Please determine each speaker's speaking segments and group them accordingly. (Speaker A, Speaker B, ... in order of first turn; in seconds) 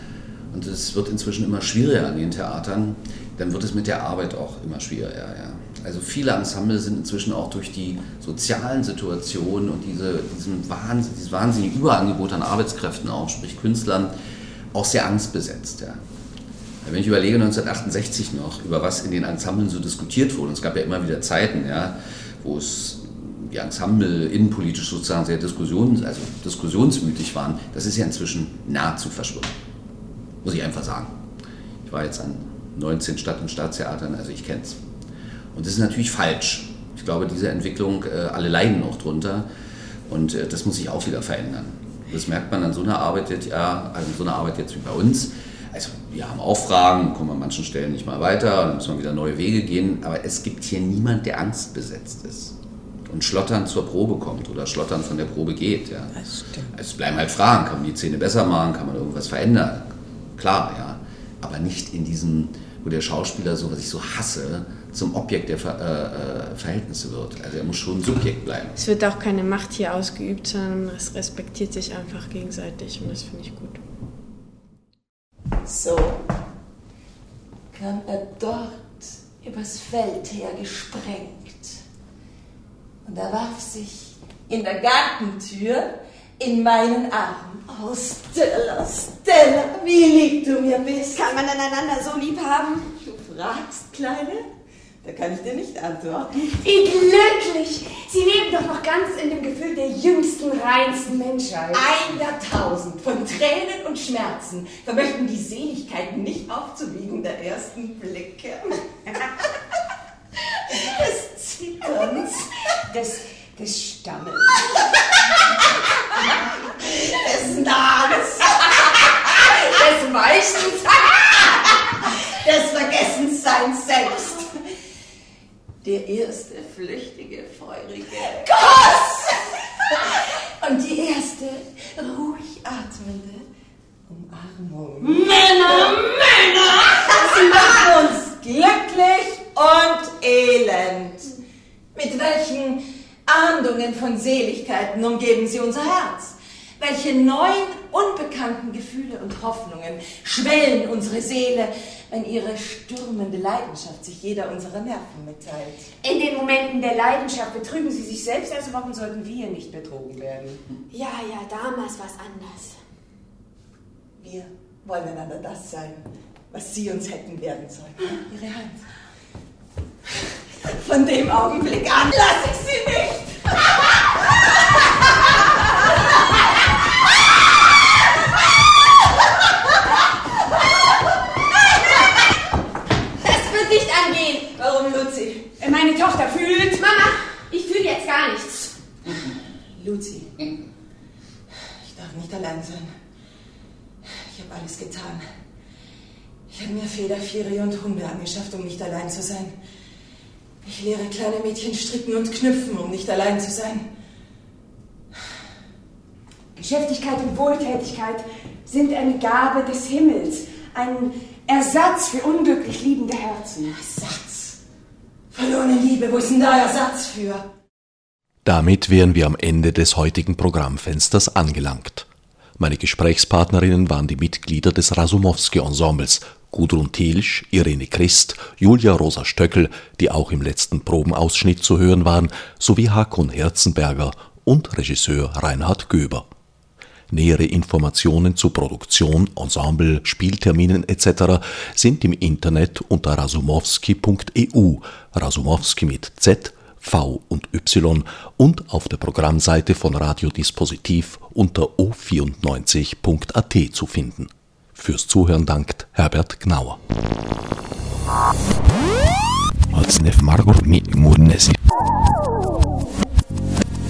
Speaker A: 0.5-14.1, 14.7-16.0, 16.8-29.5, 30.4-31.1, 31.9-34.8, 35.5-39.5, 40.1-52.5, 53.1-56.2, 56.7-68.7
Speaker B: 56.1-56.7, 75.6-76.2, 77.7-81.8, 83.0-94.4, 95.0-96.6, 101.7-108.8, 110.5-112.5, 116.2-119.2, 122.2-124.6, 125.8-133.5, 134.1-136.1, 136.8-141.4, 141.9-155.9, 164.2-168.9, 170.1-175.8, 184.3-185.5, 189.7-190.5, 191.8-192.9, 194.0-195.2, 196.5-199.6, 200.6-203.9, 213.6-214.6, 215.3-217.4
Speaker C: 68.7-73.8, 160.9-162.8, 183.2-184.4, 186.8-188.7
Speaker D: 96.5-102.0, 112.8-114.9, 119.3-121.7, 135.1-137.7, 156.0-160.6, 185.6-187.1, 206.6-213.8
Speaker E: 218.4-222.1, 222.6-236.3, 237.1-256.8, 259.7-261.6